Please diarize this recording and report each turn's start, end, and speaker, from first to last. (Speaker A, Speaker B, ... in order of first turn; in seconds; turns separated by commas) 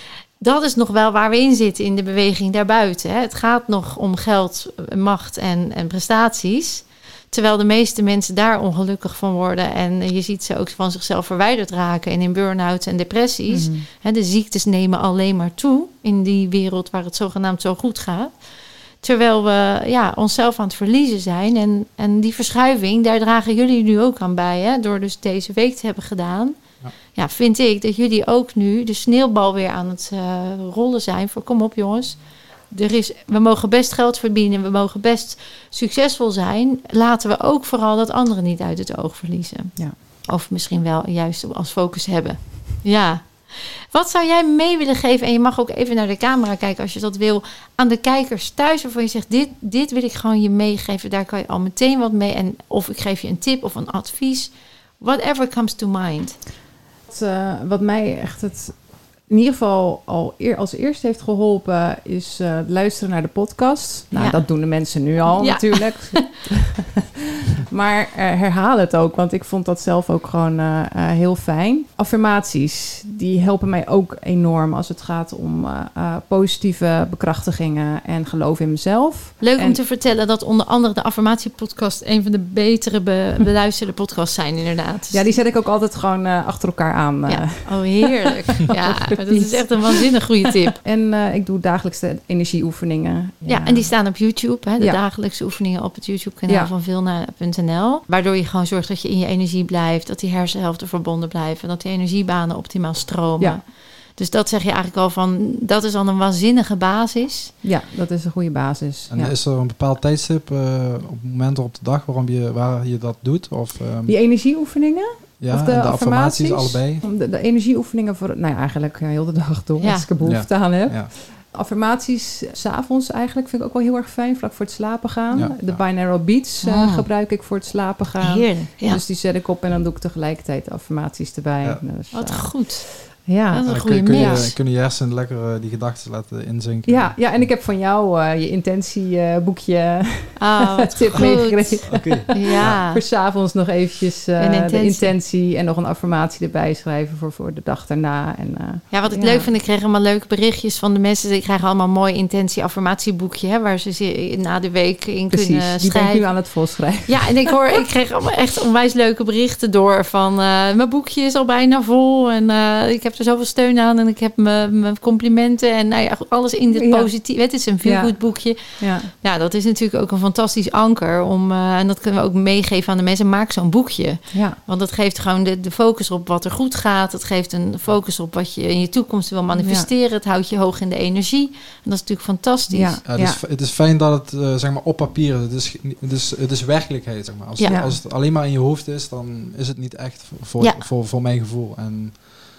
Speaker A: 0.4-18.3, Speaker B: 13.5-13.8, Speaker A: 19.0-26.6, Speaker A: 27.1-32.2, Speaker A: 32.7-56.4, Speaker B: 57.1-79.8, Speaker A: 64.1-64.4, Speaker A: 65.2-66.2, Speaker A: 79.4-85.3, Speaker B: 85.1-90.1, Speaker A: 87.2-90.8, Speaker B: 90.7-94.1, Speaker A: 93.5-103.6, Speaker A: 104.2-107.5, Speaker B: 107.6-109.3, Speaker C: 109.1-114.2, Speaker B: 114.1-134.5, Speaker C: 115.4-117.0, Speaker A: 119.8-120.1, Speaker C: 120.2-121.1, Speaker C: 125.3-125.8, Speaker A: 126.6-127.1, Speaker A: 128.2-129.0, Speaker A: 132.1-134.6, Speaker C: 133.7-137.5, Speaker B: 136.8-149.5, Speaker A: 140.4-143.0, Speaker C: 141.9-142.8, Speaker A: 144.4-145.1, Speaker A: 148.9-156.4, Speaker B: 155.3-157.4, Speaker A: 157.0-183.0, Speaker B: 166.7-169.1, Speaker B: 174.3-174.6, Speaker B: 179.6-179.9, Speaker B: 182.7-183.4, Speaker C: 183.1-192.2, Speaker A: 187.6-187.8, Speaker B: 187.6-188.0